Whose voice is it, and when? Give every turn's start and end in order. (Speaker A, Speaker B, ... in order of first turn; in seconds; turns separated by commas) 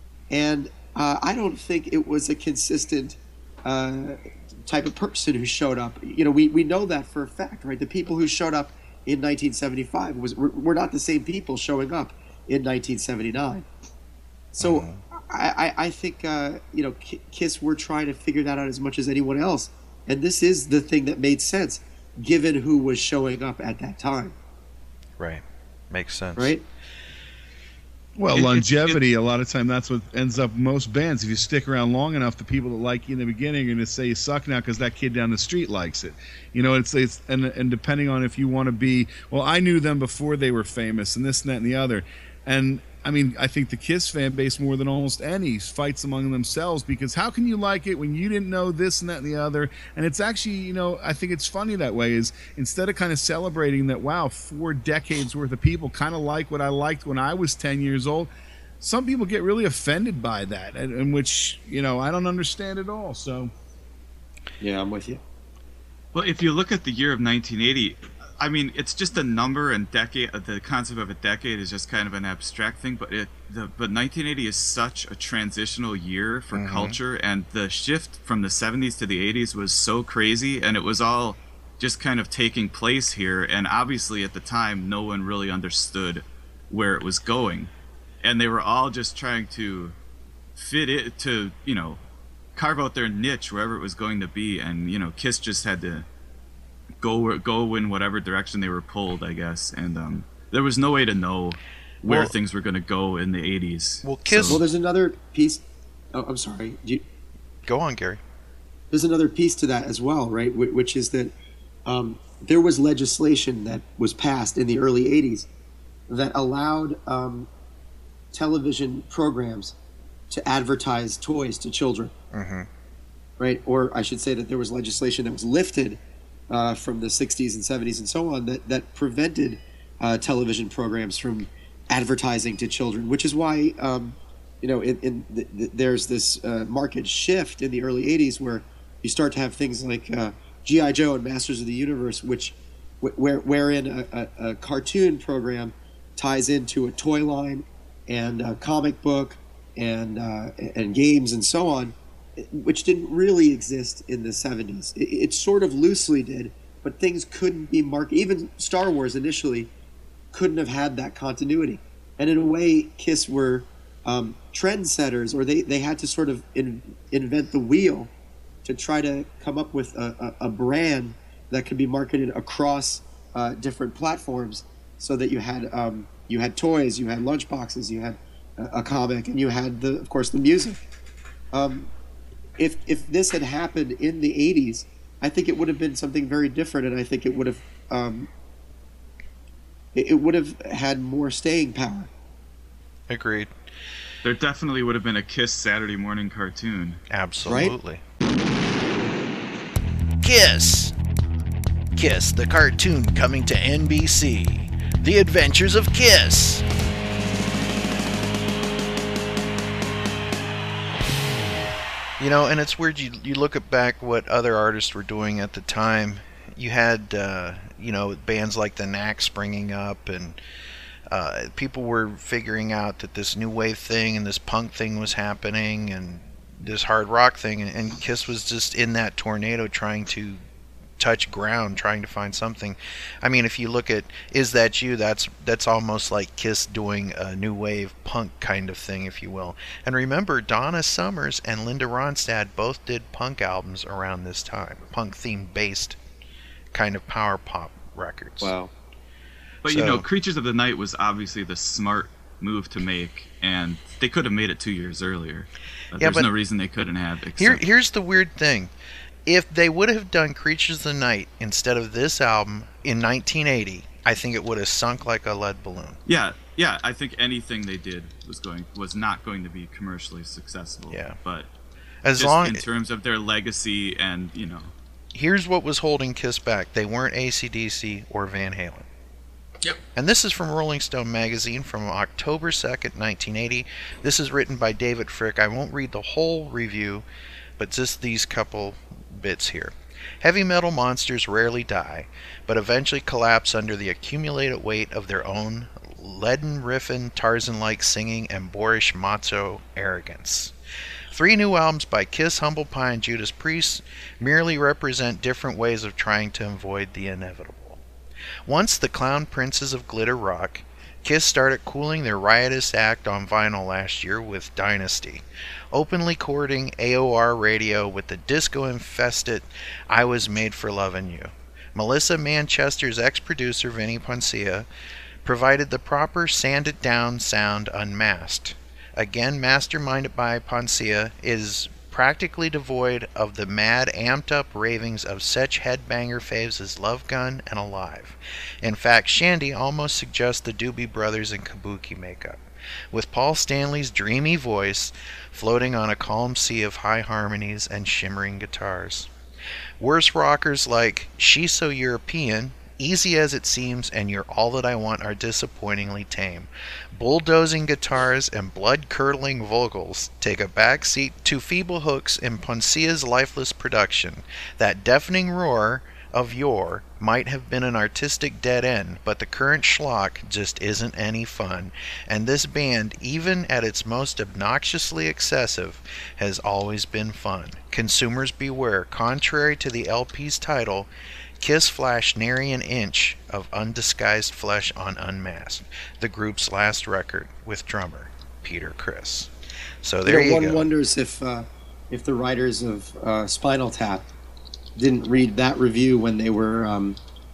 Speaker A: 0.3-13.7, Speaker A: 14.6-24.3, Speaker B: 14.6-15.0, Speaker B: 25.2-26.5, Speaker A: 26.4-26.6, Speaker C: 28.1-58.3, Speaker D: 28.3-29.0, Speaker C: 58.8-63.5, Speaker A: 64.6-65.2, Speaker D: 66.1-87.7, Speaker B: 76.5-77.0, Speaker D: 88.2-89.9, Speaker D: 90.5-92.0, Speaker D: 92.5-96.0, Speaker D: 97.0-104.6, Speaker B: 102.0-102.3, Speaker B: 104.0-104.6, Speaker A: 104.5-105.6, Speaker A: 106.1-107.0, Speaker B: 107.7-108.2, Speaker A: 108.9-111.3, Speaker A: 111.8-115.5, Speaker A: 116.1-117.5, Speaker A: 118.3-119.7, Speaker A: 120.3-122.1, Speaker B: 122.3-122.7, Speaker A: 123.4-159.7, Speaker A: 160.3-168.1, Speaker A: 168.6-180.8, Speaker A: 181.5-181.9, Speaker A: 182.6-188.3, Speaker A: 189.9-192.1, Speaker B: 193.1-193.5, Speaker D: 194.2-197.0, Speaker B: 197.1-198.0, Speaker A: 197.4-197.7, Speaker B: 200.2-200.9, Speaker B: 201.9-206.6, Speaker B: 212.2-220.4, Speaker B: 221.1-230.4, Speaker B: 231.0-246.0, Speaker B: 246.7-248.5, Speaker A: 248.4-248.7, Speaker D: 249.6-257.6, Speaker B: 249.6-250.1, Speaker B: 256.0-256.3, Speaker B: 257.4-258.7, Speaker B: 259.2-266.0, Speaker D: 266.1-271.5, Speaker B: 270.9-271.2, Speaker B: 272.0-272.6, Speaker D: 272.1-274.7, Speaker B: 275.1-278.9, Speaker B: 279.9-287.0, Speaker B: 287.6-300.5, Speaker B: 301.1-307.8, Speaker B: 308.4-324.7, Speaker B: 325.2-349.1, Speaker B: 349.8-389.3, Speaker B: 389.8-390.7, Speaker A: 390.1-394.1, Speaker A: 394.8-397.0